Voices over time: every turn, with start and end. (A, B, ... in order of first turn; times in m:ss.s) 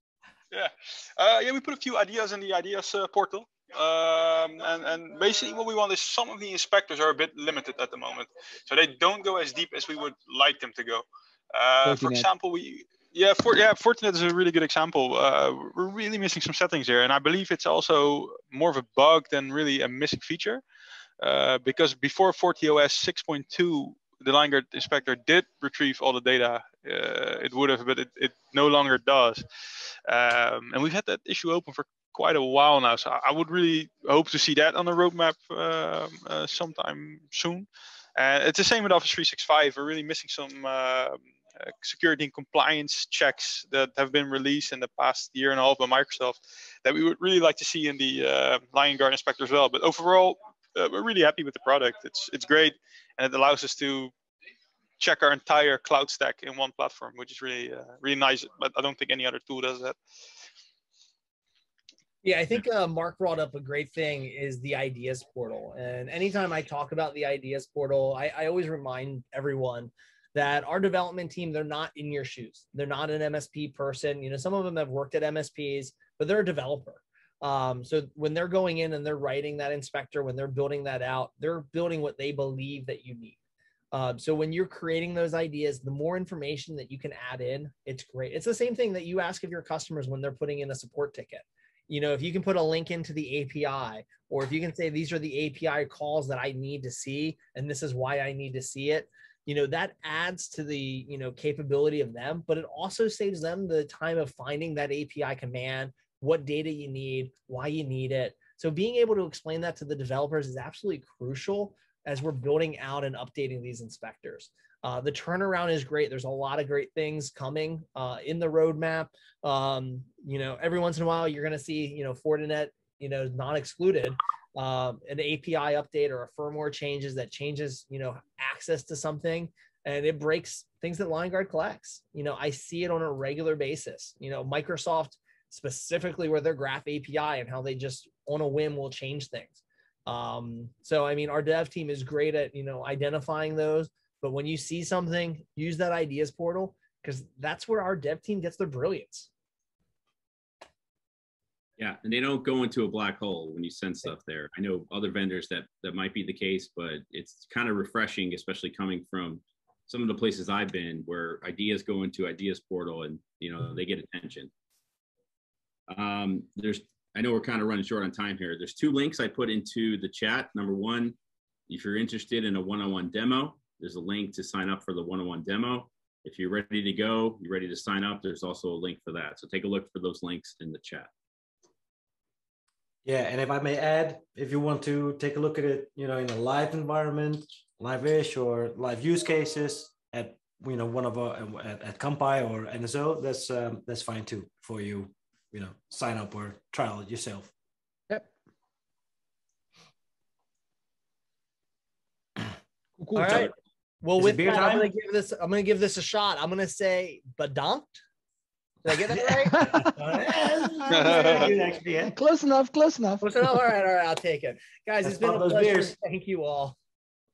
0:00.5-0:20.6 A
0:11.8-0:12.3 B
0:21.2-0:29.4 A
0:30.0-0:54.1 A
0:55.0-1:00.0 A
1:02.2-1:23.4 C
1:23.9-2:29.3 C
2:31.8-2:44.5 D
2:45.9-2:51.2 D
2:51.7-3:01.1 D
3:03.0-3:17.5 E
3:23.0-3:23.4 B
3:23.1-3:28.0 C
3:24.2-3:24.9 E
3:28.8-3:31.6 C
3:29.4-3:33.2 B
3:30.6-3:32.2 E
3:30.9-3:31.4 A
3:33.2-3:36.8 C
3:35.0-3:35.9 E